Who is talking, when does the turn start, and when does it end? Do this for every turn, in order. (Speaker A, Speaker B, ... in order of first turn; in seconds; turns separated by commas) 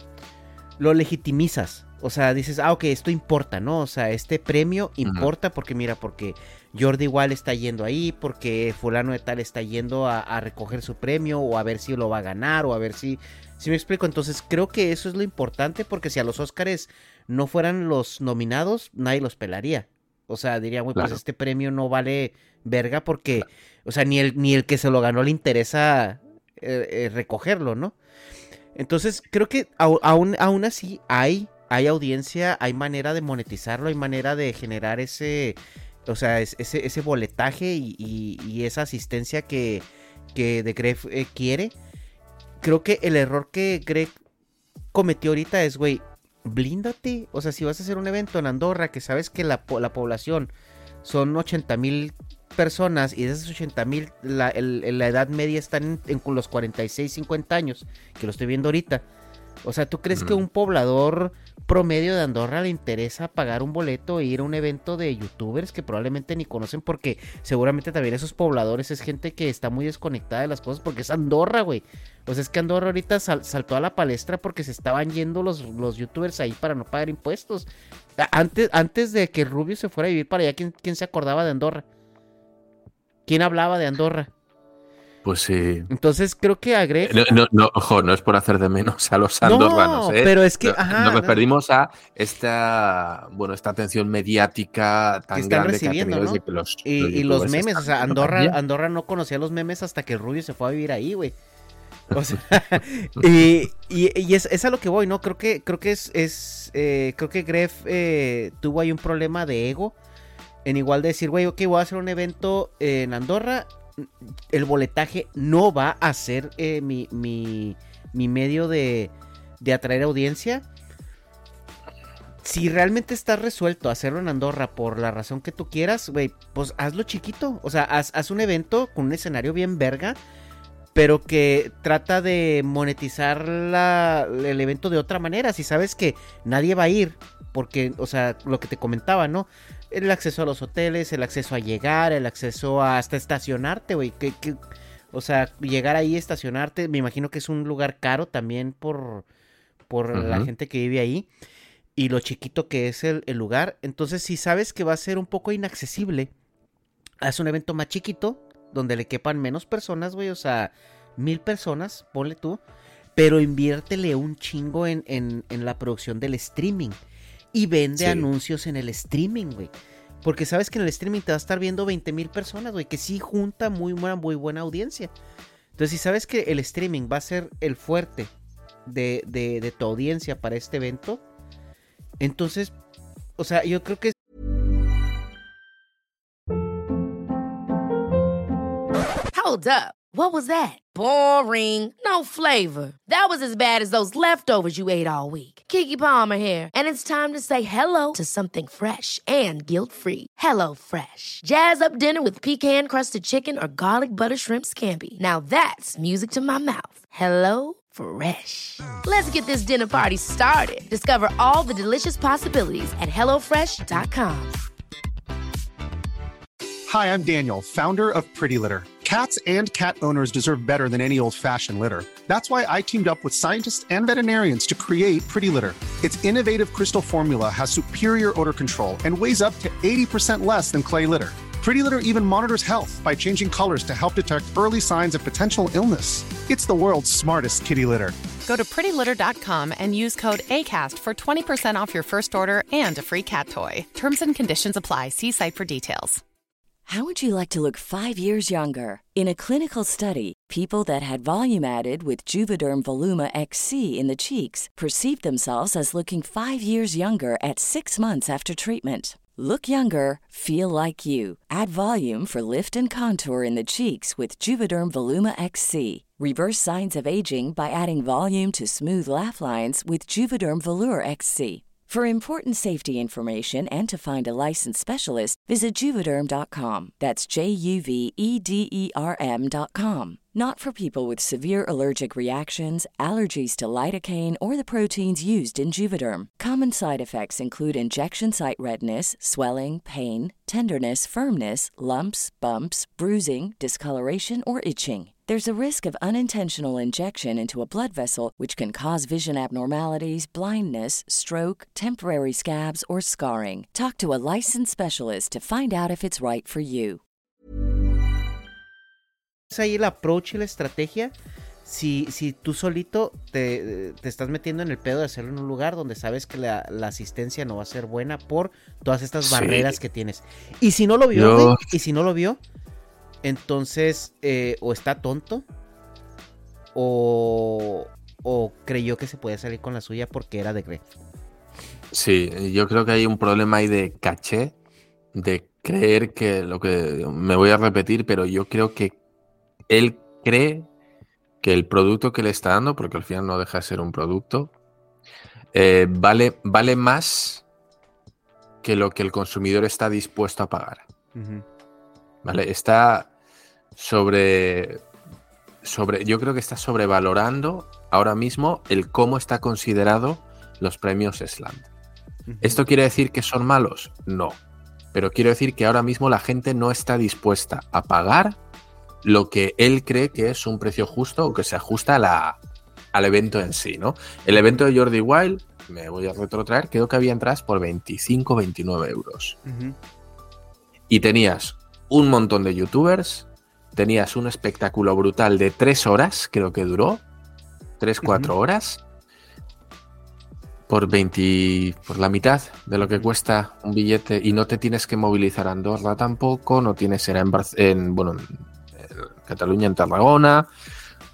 Speaker A: 0.8-27.9, Speaker B: 5.0-5.3, Speaker B: 20.9-21.2, Speaker A: 28.7-41.7, Speaker A: 42.6-44.1, Speaker A: 44.9-50.5, Speaker A: 51.0-59.0, Speaker A: 59.6-77.7, Speaker B: 60.1-60.4, Speaker A: 78.2-81.8, Speaker A: 83.2-84.3, Speaker B: 85.2-85.9, Speaker A: 85.9-87.3, Speaker B: 87.0-98.6, Speaker A: 89.4-91.4, Speaker A: 95.3-101.3, Speaker A: 102.1-110.0, Speaker A: 110.6-120.6, Speaker A: 122.4-130.2, Speaker A: 130.9-144.6, Speaker A: 145.1-149.2, Speaker A: 149.9-151.3, Speaker B: 150.1-150.5, Speaker A: 151.9-156.3, Speaker A: 157.2-162.6, Speaker A: 163.2-167.0, Speaker A: 167.5-169.7, Speaker B: 168.0-168.3, Speaker A: 170.2-175.1, Speaker A: 175.8-178.3, Speaker A: 178.8-181.2, Speaker A: 182.2-182.7, Speaker A: 183.4-184.1, Speaker C: 189.3-214.6, Speaker D: 216.9-238.1, Speaker E: 238.4-246.2, Speaker F: 246.8-307.0, Speaker A: 309.5-311.1, Speaker A: 311.6-322.4, Speaker B: 319.2-319.8, Speaker B: 321.1-321.7, Speaker A: 323.2-325.4, Speaker A: 326.7-330.8, Speaker B: 331.9-334.5, Speaker B: 335.1-338.9, Speaker B: 339.7-340.7, Speaker B: 341.4-344.5, Speaker B: 345.5-347.4, Speaker B: 348.6-350.9, Speaker A: 351.1-351.4, Speaker B: 352.2-353.1, Speaker B: 353.8-354.8, Speaker B: 355.6-361.7, Speaker A: 362.3-362.6, Speaker B: 362.4-364.4, Speaker B: 364.9-368.4, Speaker B: 369.0-372.4, Speaker B: 372.9-379.4, Speaker A: 374.3-374.6, Speaker A: 379.4-379.8, Speaker B: 380.9-387.0, Speaker B: 387.8-388.8, Speaker A: 388.0-388.3, Speaker B: 390.7-400.5, Speaker A: 392.8-393.1